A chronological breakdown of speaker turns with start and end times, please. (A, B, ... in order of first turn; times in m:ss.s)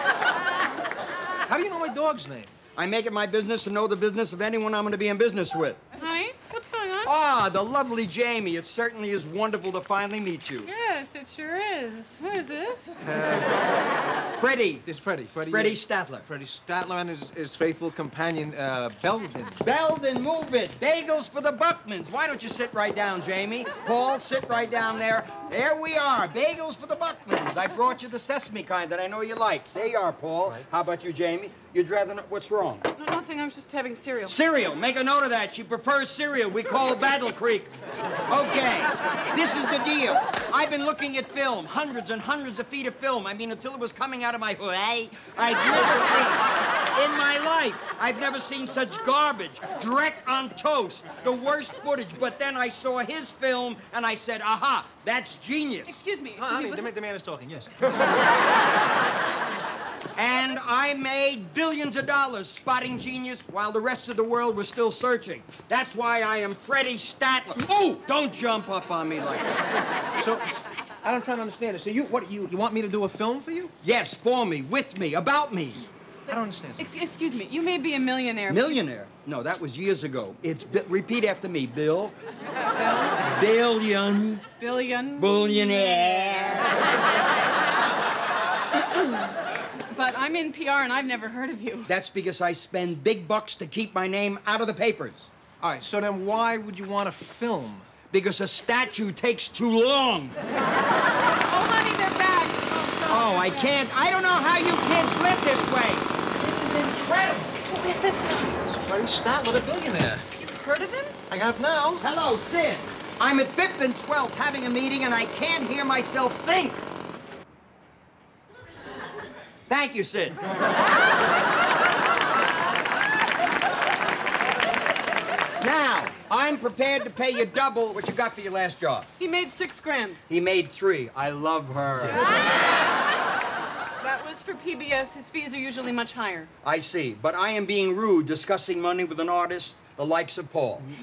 0:01.5-0:02.5 A
0:02.8-0:05.8 B
0:06.0-0:07.1 C
0:07.0-0:10.7 B
0:10.6-0:12.9 C
0:13.0-0:13.6 A
0:14.4-0:14.9 B
0:14.8-0:19.6 A
0:15.5-0:16.2 B
0:19.6-0:32.8 B
0:33.0-0:34.4 C
0:34.3-0:37.7 B
0:38.3-0:46.4 B
0:46.9-0:56.0 B
0:55.8-0:56.9 C
0:56.4-0:57.8 A
1:00.2-1:09.6 B
1:10.2-1:13.7 A
1:13.8-1:15.8 B
1:16.2-1:16.9 A
1:16.8-1:18.8 C
1:18.5-1:22.1 B
1:22.8-1:23.2 C
1:23.2-1:24.4 B
1:24.6-1:26.6 C
1:25.2-1:26.7 B
1:28.7-1:29.3 C
1:29.9-1:31.9 C
1:31.8-1:35.3 B
1:35.6-1:37.9 A
1:38.1-1:40.4 B
1:41.4-1:43.8 C
1:43.1-1:47.6 B
1:47.7-1:48.7 C
1:48.7-1:50.3 A
1:50.4-1:51.2 C
1:51.3-1:52.0 A
1:52.0-1:56.8 B
1:59.7-2:00.4 B
2:05.6-2:09.1 B
2:09.2-2:10.2 C
2:10.3-2:12.3 B
2:14.0-2:16.5 C
2:16.6-2:20.8 B